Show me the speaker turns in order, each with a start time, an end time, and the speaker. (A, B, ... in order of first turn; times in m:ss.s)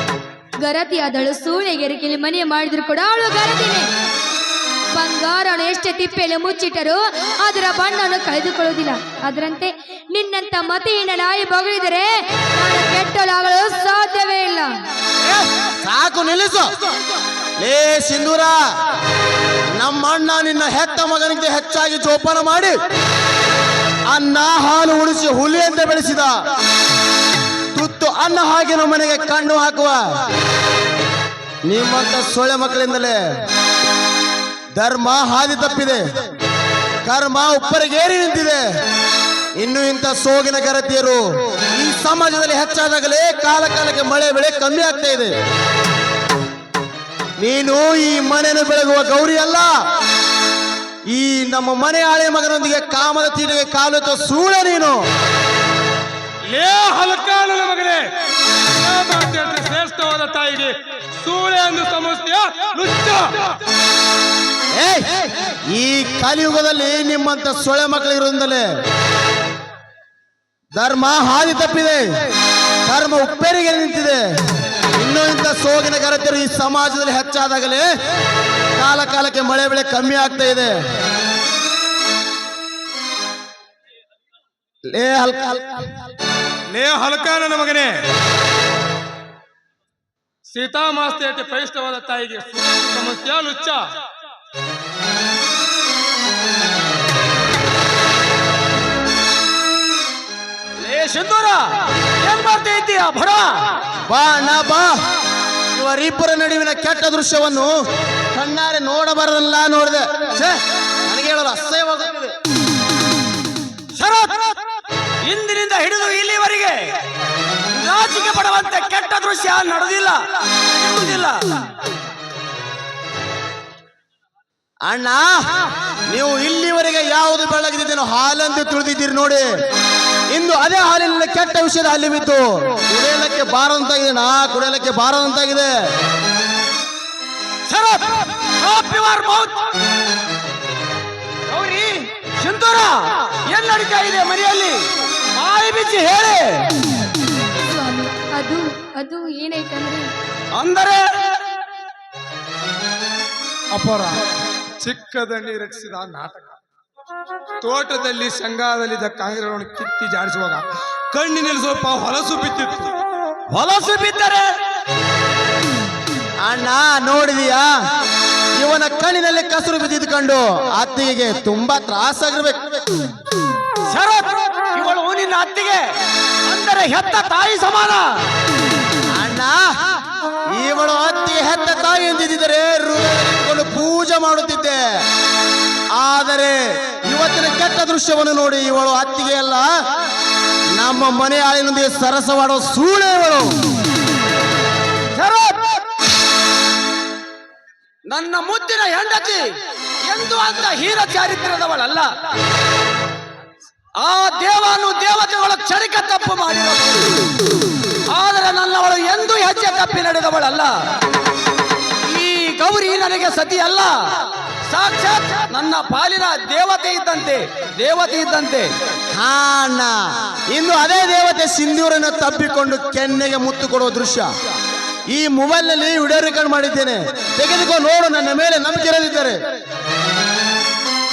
0:00.6-0:03.9 A
0:04.9-0:14.7 A
0:15.2-0:16.7 B
0:17.6-0:18.6 B
0:19.8-0:22.8 B
0:24.1-0:26.4 B
0:27.7-0:30.2 B
0:31.7-0:33.2 B
0:34.8-0:36.2 B
0:37.0-0:38.6 B
0:39.6-0:45.3 B
0:47.4-0:49.7 B
0:51.1-0:55.1 B
0:56.5-0:58.0 C
0:58.8-1:03.4 C
1:04.7-1:08.7 B
1:10.8-1:12.2 B
1:12.8-1:14.4 B
1:15.0-1:17.9 B
1:18.8-1:20.8 B
1:24.9-1:25.9 B
1:26.7-1:28.0 C
1:30.4-1:33.8 C
1:40.8-1:43.7 D
1:44.1-1:45.0 B
1:45.7-1:47.8 B
1:48.3-1:52.3 B
1:54.0-1:54.6 D
1:55.2-1:57.0 D
1:57.7-2:01.6 D
2:04.8-2:09.5 B
2:10.3-2:15.7 B
2:17.7-2:19.8 D
2:21.5-2:26.7 D
2:27.6-2:30.1 A
2:30.5-2:31.1 D
2:33.7-2:34.2 C
2:34.8-2:36.6 C
2:37.6-2:42.9 C
2:43.5-2:44.5 D
2:46.4-2:47.7 B
2:48.6-2:53.1 B
2:53.8-2:55.9 D
2:56.4-2:58.2 D
2:59.2-2:59.6 B
3:00.5-3:05.0 B
3:06.0-3:09.7 B
3:10.8-3:13.6 B
3:15.2-3:15.8 D
3:18.1-3:22.1 D
3:24.0-3:27.2 D
3:28.1-3:30.9 D
3:32.0-3:38.8 D
3:39.1-3:40.0 B
3:40.5-3:44.3 B
3:45.1-3:49.4 B